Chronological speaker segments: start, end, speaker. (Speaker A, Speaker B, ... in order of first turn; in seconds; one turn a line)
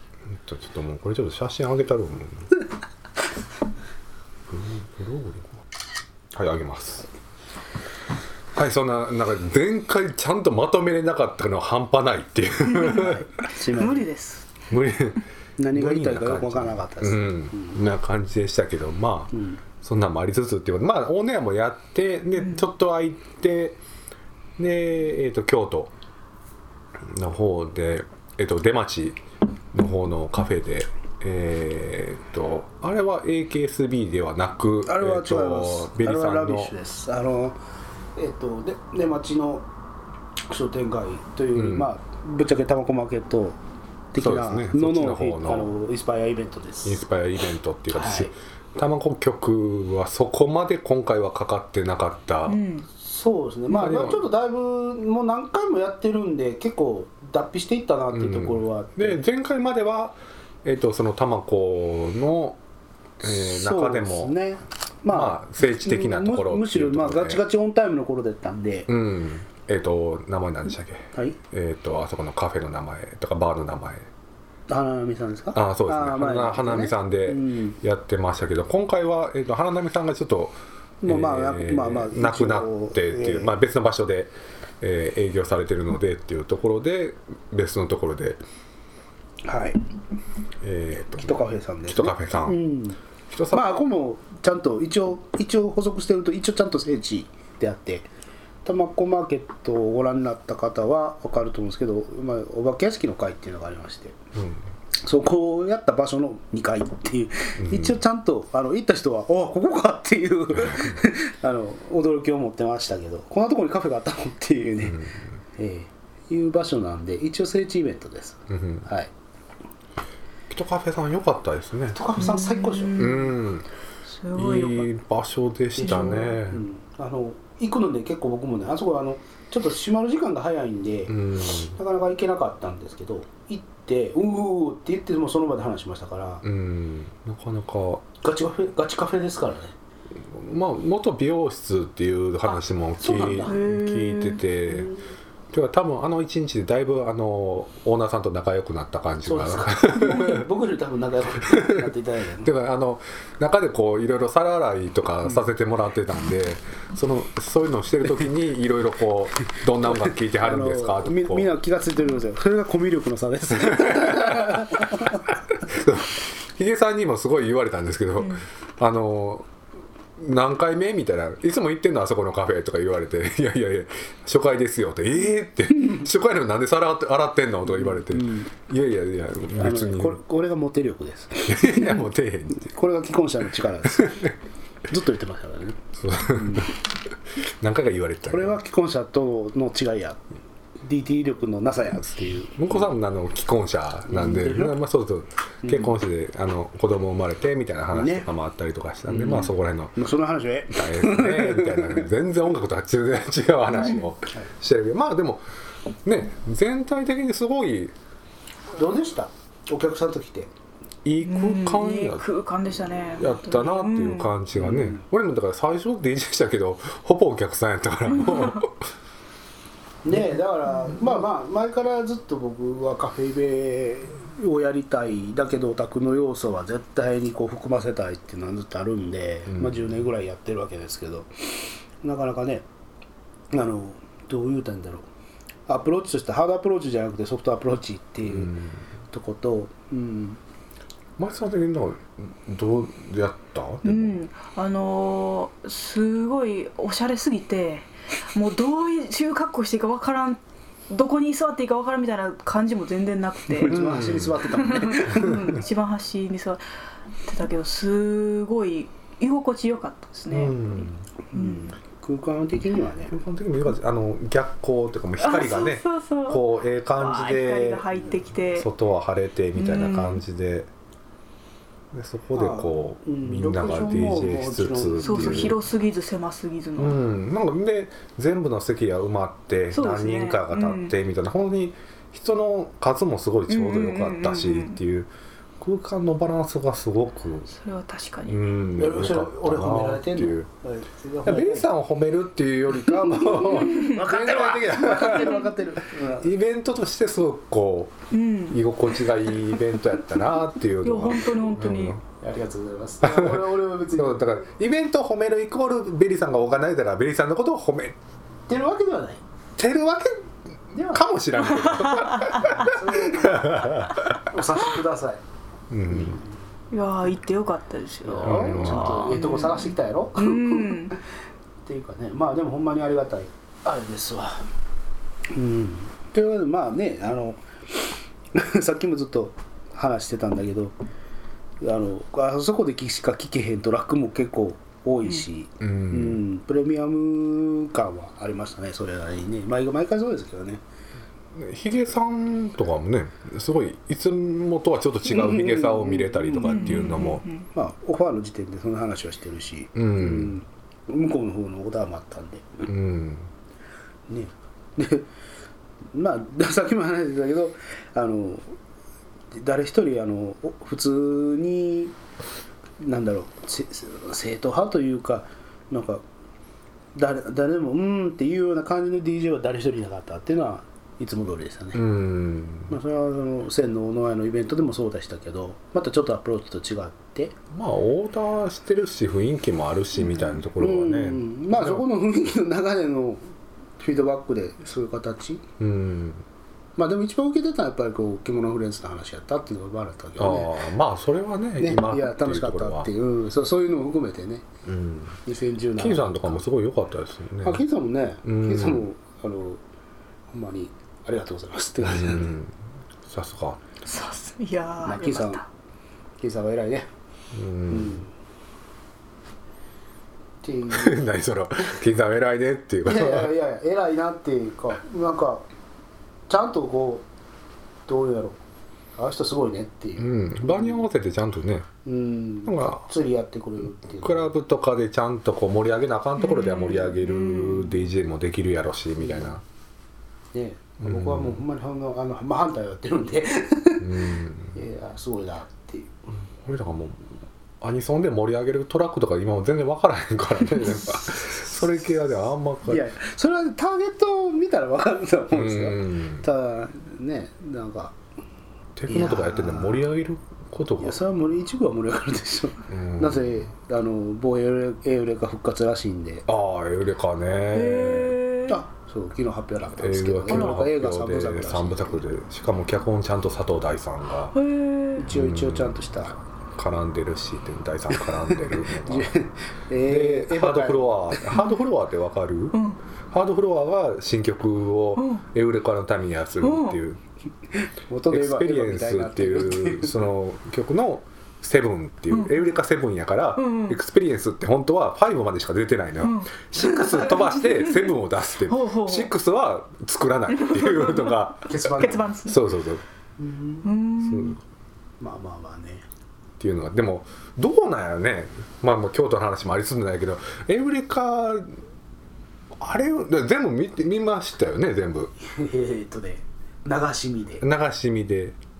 Speaker A: 0.3-2.5
Speaker A: 4.5-5.5
Speaker A: 6.3-7.1
Speaker A: 8.6-13.3
Speaker B: 12.7-14.5
Speaker C: 13.0-14.1
Speaker A: 14.7-23.8
Speaker C: 15.6-17.8
Speaker C: 19.3-19.6
Speaker B: 22.4-22.6
Speaker A: 24.6-25.9
Speaker A: 27.1-29.2
Speaker A: 29.7-36.7
Speaker C: 34.9-37.6
Speaker C: 38.1-39.6
Speaker C: 40.5-43.6
Speaker A: 41.5-41.9
Speaker C: 44.1-47.0
Speaker A: 44.2-45.7
Speaker A: 46.8-52.6
Speaker C: 47.9-48.3
Speaker B: 52.5-52.9
Speaker C: 52.9-59.2
Speaker A: 53.7-54.2
Speaker A: 58.1-62.6
Speaker A: 63.2-64.3
Speaker C: 63.2-68.9
Speaker A: 65.1-67.4
Speaker A: 68.9-74.1
Speaker C: 71.1-71.4
Speaker C: 74.7-77.8
Speaker A: 75.5-88.4
Speaker C: 81.0-83.5
Speaker C: 89.5-89.8
Speaker A: 90.6-92.6
Speaker C: 91.1-93.0
Speaker A: 93.3-93.8
Speaker C: 93.5-98.1
Speaker C: 98.6-104.2
Speaker C: 104.9-119.1
Speaker A: 107.6-108.0
Speaker A: 110.5-111.0
Speaker A: 118.5-118.8
Speaker A: 120.5-122.0
Speaker C: 121.9-123.0
Speaker B: 122.2-123.4
Speaker A: 123.0-123.7
Speaker B: 124.0-124.9
Speaker A: 124.3-126.6
Speaker C: 125.8-136.4
Speaker B: 125.8-126.3
Speaker A: 131.1-131.8
Speaker A: 136.4-138.0
Speaker C: 138.2-139.7
Speaker A: 140.3-144.9
Speaker C: 143.0-143.6
Speaker B: 143.4-144.4
Speaker C: 144.7-144.9
Speaker A: 145.5-150.5
Speaker C: 149.2-152.5
Speaker A: 152.4-161.5
Speaker C: 159.9-165.2
Speaker A: 163.7-164.8
Speaker A: 165.6-169.5
Speaker B: 168.2-168.4
Speaker A: 170.2-180.2
Speaker C: 177.7-178.5
Speaker C: 179.5-184.3
Speaker A: 181.4-182.7
Speaker A: 183.9-184.3
Speaker C: 184.9-186.7
Speaker A: 186.0-186.7
Speaker A: 187.6-188.6
Speaker C: 188.3-192.9
Speaker A: 192.5-200.0
Speaker C: 194.1-194.8
Speaker C: 195.6-195.9
Speaker C: 197.9-198.3
Speaker C: 199.1-202.1
Speaker A: 200.7-205.4
Speaker B: 203.7-204.0
Speaker A: 206.0-207.9
Speaker C: 208.7-210.5
Speaker A: 211.0-212.2
Speaker B: 211.2-214.3
Speaker A: 213.2-218.8
Speaker C: 214.5-215.0
Speaker B: 218.1-218.6
Speaker C: 220.0-232.7
Speaker A: 229.5-229.9
Speaker C: 233.5-235.1
Speaker C: 235.7-238.5
Speaker A: 238.2-238.8
Speaker C: 239.1-240.4
Speaker A: 241.2-244.2
Speaker B: 243.8-253.8
Speaker C: 253.6-255.5
Speaker A: 253.7-254.4
Speaker B: 254.5-256.6
Speaker A: 255.1-255.5
Speaker B: 257.2-261.7
Speaker A: 260.3-261.1
Speaker C: 261.3-263.2
Speaker A: 263.1-267.9
Speaker B: 265.2-268.7
Speaker A: 268.5-270.7
Speaker B: 269.5-270.2
Speaker A: 271.9-275.6
Speaker C: 272.3-275.6
Speaker B: 275.0-277.0
Speaker A: 276.8-287.5
Speaker B: 279.7-280.9
Speaker B: 283.5-284.8
Speaker B: 287.5-288.4
Speaker A: 288.2-290.5
Speaker C: 288.7-291.7
Speaker A: 291.2-295.5
Speaker C: 292.9-296.3
Speaker B: 293.6-294.0
Speaker A: 296.2-302.0
Speaker B: 298.1-298.6
Speaker B: 300.8-302.0
Speaker C: 302.2-304.4
Speaker A: 303.0-307.9
Speaker C: 308.5-309.2
Speaker A: 309.6-310.1
Speaker C: 310.7-311.1
Speaker A: 310.9-314.3
Speaker C: 312.6-315.2
Speaker A: 315.7-316.2
Speaker C: 315.9-316.3
Speaker B: 316.7-320.9
Speaker C: 318.0-320.9
Speaker A: 318.2-319.2
Speaker C: 321.6-324.5
Speaker C: 325.3-327.4
Speaker C: 328.3-330.7
Speaker C: 331.6-340.6
Speaker A: 335.6-336.2
Speaker A: 341.3-347.2
Speaker C: 345.1-352.7
Speaker B: 346.4-347.5
Speaker A: 349.7-350.3
Speaker A: 352.7-353.3
Speaker C: 354.1-355.1
Speaker C: 355.9-358.5
Speaker C: 359.3-361.9
Speaker C: 362.8-366.0
Speaker C: 366.9-371.8
Speaker A: 371.7-372.8
Speaker C: 372.7-377.3
Speaker A: 377.5-381.8
Speaker C: 380.5-383.2
Speaker C: 383.8-385.4
Speaker A: 385.6-386.2
Speaker C: 386.8-390.6
Speaker A: 390.2-392.9
Speaker C: 391.6-394.4
Speaker A: 394.6-395.2
Speaker C: 395.2-396.4
Speaker A: 395.8-397.6
Speaker C: 397.4-399.6
Speaker A: 398.2-398.9
Speaker C: 400.3-402.3
Speaker A: 401.8-402.5
Speaker A: 403.0-403.6
Speaker B: 403.8-405.4
Speaker C: 404.8-405.4
Speaker C: 406.2-406.9
Speaker A: 407.3-408.0
Speaker C: 407.7-408.1
Speaker C: 410.4-411.1
Speaker A: 410.7-413.3
Speaker C: 412.8-415.4
Speaker C: 416.3-417.1
Speaker C: 417.9-418.4
Speaker C: 418.9-420.8
Speaker A: 420.0-421.7
Speaker C: 421.8-424.3
Speaker A: 422.4-422.9
Speaker A: 423.8-429.4
Speaker B: 426.2-427.8
Speaker C: 429.0-429.4
Speaker C: 430.3-436.0
Speaker A: 430.8-431.4
Speaker A: 433.8-434.6
Speaker A: 436.4-437.1
Speaker A: 437.6-442.9
Speaker C: 442.7-447.9
Speaker A: 445.3-446.2
Speaker A: 448.8-451.0
Speaker C: 448.9-449.9
Speaker C: 450.8-456.3
Speaker A: 452.7-453.4
Speaker A: 456.3-458.2
Speaker B: 457.5-458.6
Speaker C: 458.5-462.0
Speaker A: 459.8-464.4
Speaker B: 464.3-465.1
Speaker C: 464.9-466.2
Speaker A: 465.1-465.8
Speaker A: 466.6-469.1
Speaker C: 467.9-471.4
Speaker A: 469.8-472.6
Speaker B: 472.5-472.8
Speaker A: 473.1-477.0
Speaker B: 474.9-475.2
Speaker B: 476.4-476.8
Speaker C: 477.6-480.1
Speaker A: 478.1-492.8
Speaker B: 482.1-482.5
Speaker B: 483.4-483.8
Speaker B: 486.0-489.1
Speaker B: 490.3-492.4
Speaker C: 491.5-492.1
Speaker C: 493.2-493.7
Speaker B: 493.6-494.4
Speaker A: 494.0-494.4
Speaker C: 495.0-495.8
Speaker A: 496.4-501.6
Speaker A: 502.6-505.1
Speaker C: 505.2-507.4
Speaker A: 507.4-508.4